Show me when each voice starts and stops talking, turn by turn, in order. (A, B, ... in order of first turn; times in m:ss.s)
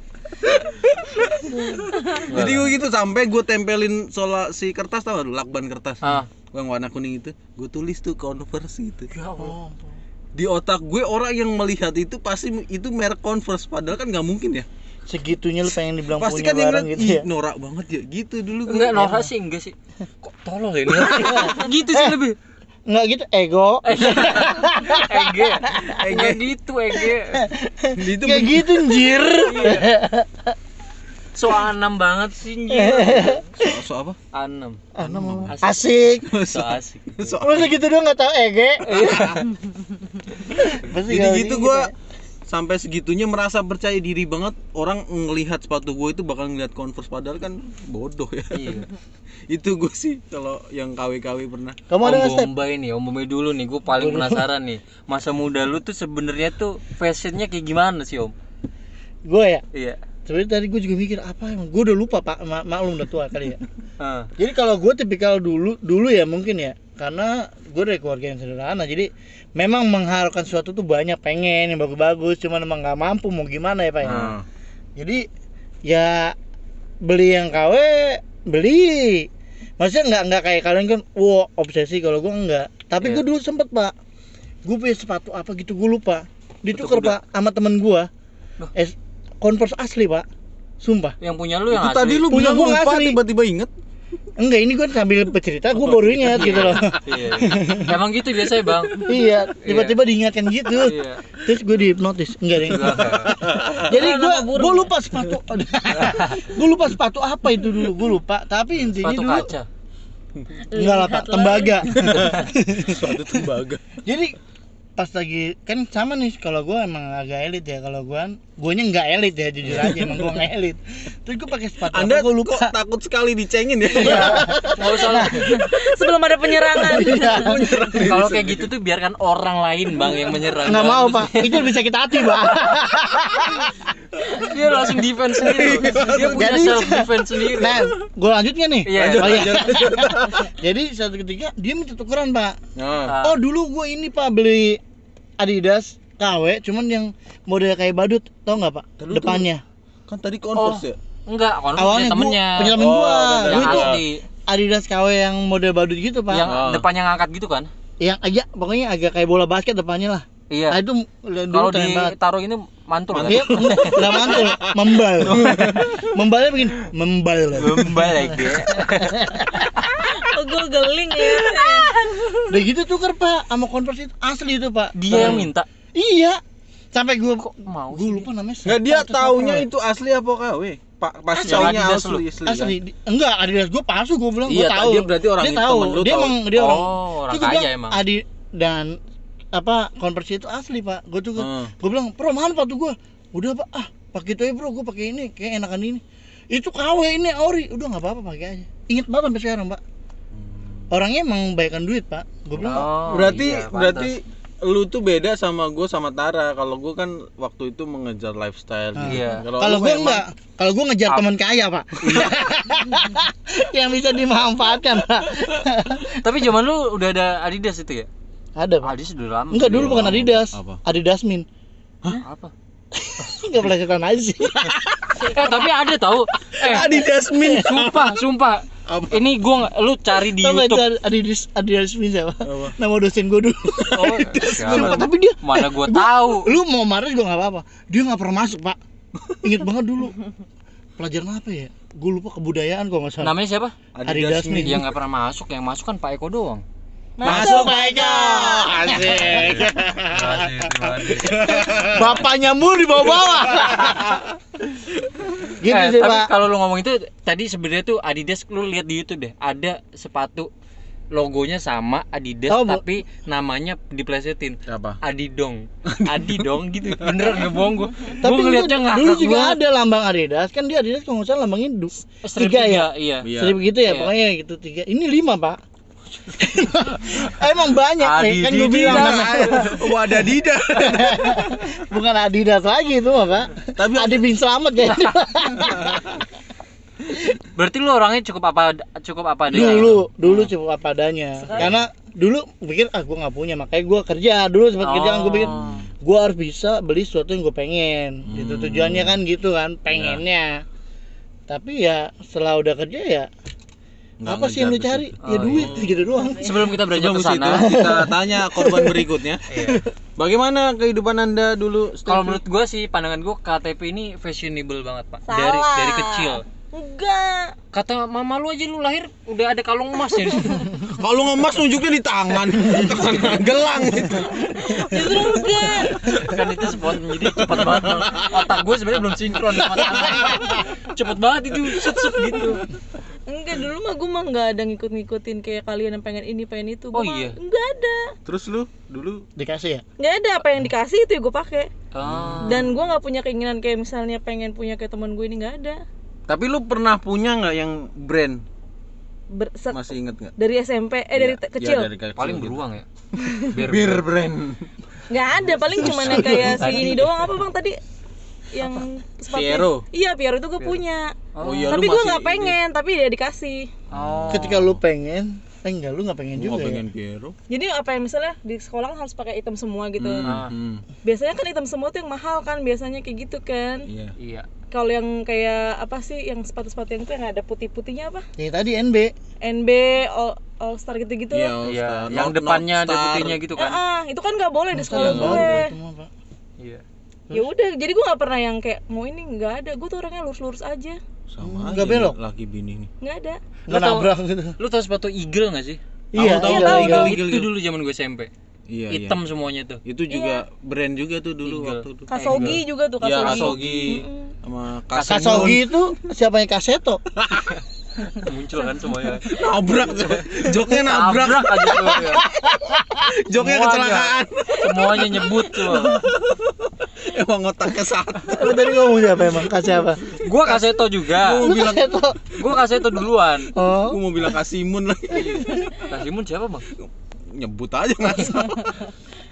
0:00.4-0:09.1 A
0:01.7-0:02.2 B
0:02.3-0:02.7 C
0:06.0-0:06.3 C
0:09.1-0:09.6 C
0:09.4-0:10.0 D
0:10.3-0:14.7 A
0:15.1-0:17.2 D
0:16.2-0:19.2 A
0:18.7-0:22.4 C
0:21.1-0:22.2 D
0:22.9-0:26.0 D
0:23.8-0:27.5 C
0:24.1-0:24.5 A
0:25.8-0:26.4 A
0:27.3-0:30.6 D
0:28.0-0:29.1 A
0:29.3-0:29.9 C
0:31.3-0:33.4 C
0:32.7-0:33.8 D
0:33.6-0:34.2 A
0:34.3-0:37.4 C
0:34.9-0:36.3 D
0:35.0-0:35.5 A
0:36.2-0:37.7 A
0:37.4-0:39.2 D
0:38.8-0:39.5 C
0:39.0-0:39.4 A
0:40.6-0:41.9 D
0:41.0-0:41.9 A
0:42.5-0:48.8 A
0:48.5-0:48.9 C
0:49.5-0:51.8 A
0:51.9-0:52.5 D
0:52.0-0:58.3 C
0:53.9-0:54.5 D
0:59.2-0:59.6 D
0:59.7-1:00.0 C
1:00.2-1:03.6 D
1:04.0-1:04.3 C
1:04.4-1:14.2 D
1:14.0-1:14.4 A
1:14.0-1:14.3 C
1:15.0-1:15.3 D
1:15.8-1:16.3 D
1:17.0-1:19.3 D
1:19.8-1:23.9 D
1:24.6-1:28.1 D
1:26.7-1:27.2 C
1:28.7-1:30.2 D
1:30.8-1:31.2 D
1:31.2-1:32.3 C
1:31.7-1:33.7 A
1:32.3-1:33.2 D
1:34.4-1:37.9 D
1:36.2-1:36.9 A
1:36.3-1:39.1 C
1:39.0-1:49.5 D
1:39.6-1:40.0 C
1:40.8-1:41.2 C
1:42.6-1:43.3 C
1:43.0-1:43.9 A
1:43.9-1:44.9 B
1:46.0-1:46.4 C
1:48.8-1:49.6 C
1:50.7-1:52.2 B
1:50.7-1:53.4 D
1:52.0-1:53.9 A
1:54.0-1:54.4 D
1:55.0-2:02.7 D
1:59.7-2:00.1 A
2:01.9-2:04.8 A
2:03.9-2:05.7 D
2:04.7-2:05.5 C
2:05.3-2:08.0 B
2:06.6-2:07.7 D
2:07.3-2:08.7 A
2:07.9-2:11.7 C
2:10.6-2:13.7 D
2:14.3-2:17.8 C
2:15.4-2:16.5 A
2:15.9-2:22.6 D
2:18.8-2:19.6 C
2:18.9-2:20.5 A
2:22.8-2:23.2 A
2:23.1-2:23.4 C
2:23.2-2:24.8 D
2:25.4-2:29.6 D
2:29.0-2:29.4 A
2:30.1-2:31.0 A
2:30.6-2:32.8 C
2:31.8-2:36.5 D
2:32.8-2:34.0 A
2:33.4-2:34.2 C
2:36.3-2:37.7 C
2:36.4-2:36.8 A
2:38.0-2:42.1 D
2:40.5-2:40.8 C
2:41.5-2:44.4 C
2:43.1-2:46.1 A
2:43.2-2:49.9 D
2:45.3-2:45.8 C
2:47.6-2:49.3 C
2:50.0-2:52.3 B
2:52.5-2:56.4 D
2:54.9-2:55.7 C
2:55.1-2:55.5 A
2:56.9-2:59.7 D
2:57.4-2:58.3 C
2:58.6-3:02.7 A
3:01.3-3:01.9 D
3:01.4-3:02.2 C
3:02.4-3:09.0 D
3:04.5-3:06.4 A
3:06.5-3:08.0 C
3:09.5-3:19.8 D
3:11.4-3:11.7 A
3:20.3-3:20.9 A
3:20.9-3:23.3 D
3:22.6-3:24.1 C
3:22.7-3:30.2 A
3:28.9-3:36.2 D
3:29.0-3:29.4 C
3:32.0-3:32.3 C
3:36.2-3:38.1 C
3:38.6-3:38.9 D
3:38.8-3:40.3 C
3:39.5-3:41.5 D
3:39.6-3:40.8 A
3:42.1-3:42.5 C
3:42.9-3:44.8 D
3:44.6-3:45.3 A
3:45.2-3:50.8 C
3:46.4-3:48.2 A
3:48.8-3:49.2 A
3:50.2-3:58.8 D
3:52.4-3:52.8 A
3:53.8-3:55.1 A
3:53.9-3:56.5 C
3:59.4-4:00.2 D
4:01.0-4:03.3 D
4:03.2-4:03.8 C
4:03.9-4:04.8 A
4:04.0-4:04.8 D
4:04.6-4:06.6 C
4:07.2-4:09.1 B
4:07.2-4:14.2 D
4:07.2-4:09.9 A
4:10.1-4:11.8 C
4:11.1-4:12.2 A
4:13.5-4:14.2 A
4:15.5-4:16.3 D
4:15.6-4:20.5 C
4:21.1-4:29.6 C
4:22.5-4:22.8 D
4:24.7-4:25.0 A
4:25.9-4:26.5 A
4:27.0-4:27.5 A
4:28.2-4:35.6 D
4:32.2-4:33.3 C
4:33.2-4:33.6 A
4:33.8-4:34.1 C
4:36.3-4:46.2 D
4:38.0-4:39.8 C
4:38.6-4:41.7 A
4:43.8-4:44.3 A
4:45.7-4:46.1 A
4:47.1-4:47.3 D
4:47.5-4:50.5 C
4:49.5-5:00.6 D
4:49.6-4:49.8 A
4:51.4-4:51.7 B
4:54.8-4:55.7 C
4:55.4-4:55.8 A
4:58.3-4:59.2 A
4:59.9-5:00.2 A
5:01.5-5:03.3 D
5:04.2-5:05.9 A
5:04.2-5:06.6 D
5:05.2-5:05.7 C
5:06.1-5:06.5 B
5:06.4-5:07.7 C
5:06.6-5:09.4 A
5:07.5-5:09.8 D
5:09.5-5:09.8 C
5:10.2-5:12.4 A
5:12.0-5:16.4 C
5:15.3-5:17.5 B
5:17.7-5:20.7 C
5:20.8-5:26.4 A
5:24.6-5:26.0 B
5:26.0-5:32.6 C
5:27.3-5:28.4 A
5:29.6-5:30.5 A
5:33.3-5:38.1 B
5:36.9-5:37.4 C
5:38.2-5:39.2 A
5:39.4-5:39.8 D
5:40.0-5:41.7 B
5:41.9-5:42.7 C
5:42.1-5:42.6 A
5:42.4-5:45.8 B
5:46.3-5:48.4 A
5:49.3-5:49.8 B
5:49.7-5:50.3 A
5:50.4-5:51.9 B
5:51.1-5:52.6 A
5:52.2-5:52.8 C
5:53.2-5:53.5 B
5:53.3-5:54.7 A
5:53.5-5:54.0 C
5:55.1-5:57.8 B
5:55.8-5:57.4 C
5:55.8-5:56.8 A
5:58.5-6:03.7 B
5:59.3-5:59.8 A
6:01.3-6:01.8 C
6:01.4-6:02.6 A
6:03.9-6:04.7 C
6:03.9-6:04.7 A
6:04.3-6:06.8 D
6:06.4-6:07.3 A
6:07.5-6:10.3 B
6:10.0-6:10.8 A
6:10.2-6:10.5 C
6:11.0-6:13.9 B
6:13.9-6:14.1 A
6:14.2-6:14.5 C
6:14.7-6:18.2 B
6:18.4-6:19.1 D
6:19.4-6:21.5 B
6:21.3-6:23.4 A
6:21.6-6:23.8 C
6:23.6-6:25.7 B
6:24.7-6:26.1 D
6:24.9-6:25.6 A
6:27.3-6:31.0 B
6:31.3-6:32.9 A
6:31.4-6:32.2 D
6:33.0-6:33.4 B
6:33.7-6:34.5 D
6:33.7-6:35.8 C
6:36.1-6:37.2 D
6:36.1-6:37.5 A
6:36.4-6:38.3 C
6:36.5-6:37.0 B
6:38.7-6:39.2 A
6:38.9-6:39.8 C
6:39.8-6:45.8 A
6:40.1-6:40.4 B
6:41.4-6:42.6 C
6:42.1-6:44.3 B
6:43.2-6:43.9 C
6:44.9-6:45.6 C
6:45.0-6:47.0 D
6:47.2-6:47.6 A
6:48.2-6:49.4 C
6:49.3-6:52.0 A
6:50.0-6:52.2 C
6:51.8-6:53.1 D
6:53.0-6:58.6 A
6:53.3-6:56.0 C
6:58.3-7:00.1 D
7:00.2-7:01.4 C
7:00.4-7:02.1 A
7:01.4-7:02.2 D
7:02.3-7:03.5 C
7:03.5-7:04.0 D
7:03.6-7:05.8 A
7:05.8-7:06.7 C
7:06.8-7:08.8 A